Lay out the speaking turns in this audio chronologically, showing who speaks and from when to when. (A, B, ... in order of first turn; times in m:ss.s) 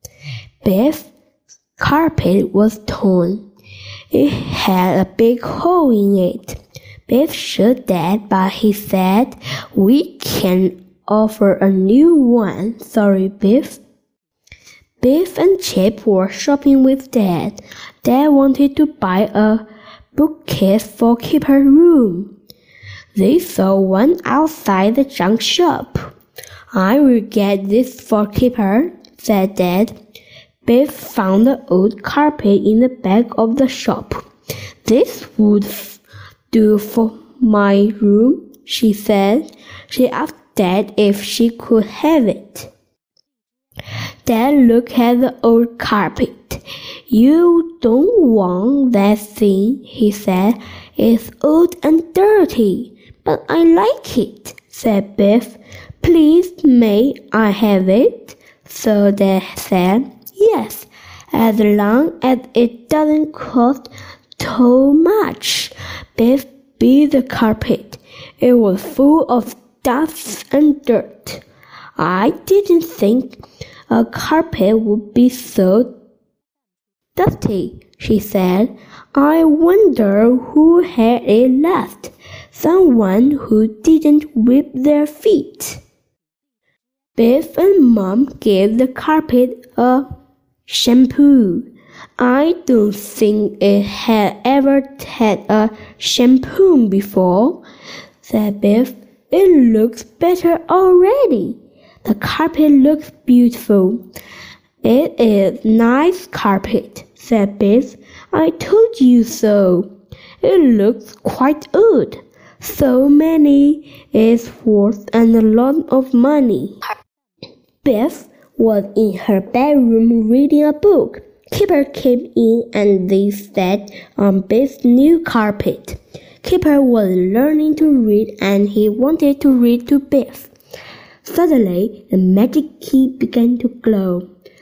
0:00.6-0:01.1 A
0:01.8-0:03.4 A
0:04.1-0:13.8 A
0:15.0-0:19.6 A
0:20.1-0:22.3 A
0:23.1-0:26.1 A
0:26.7-0:29.9 A
0:30.6-0:34.2 A
0:34.8-0:42.7 A
0:44.2-1:11.4 A
1:12.0-1:15.9 A
1:17.2-1:25.8 A
1:27.2-1:30.0 A
1:30.7-1:31.7 A
1:32.2-1:37.6 A
1:38.2-1:44.0 A
1:44.8-1:49.9 A
1:50.4-1:56.7 A
1:57.8-2:10.5 A
2:11.2-2:14.2 A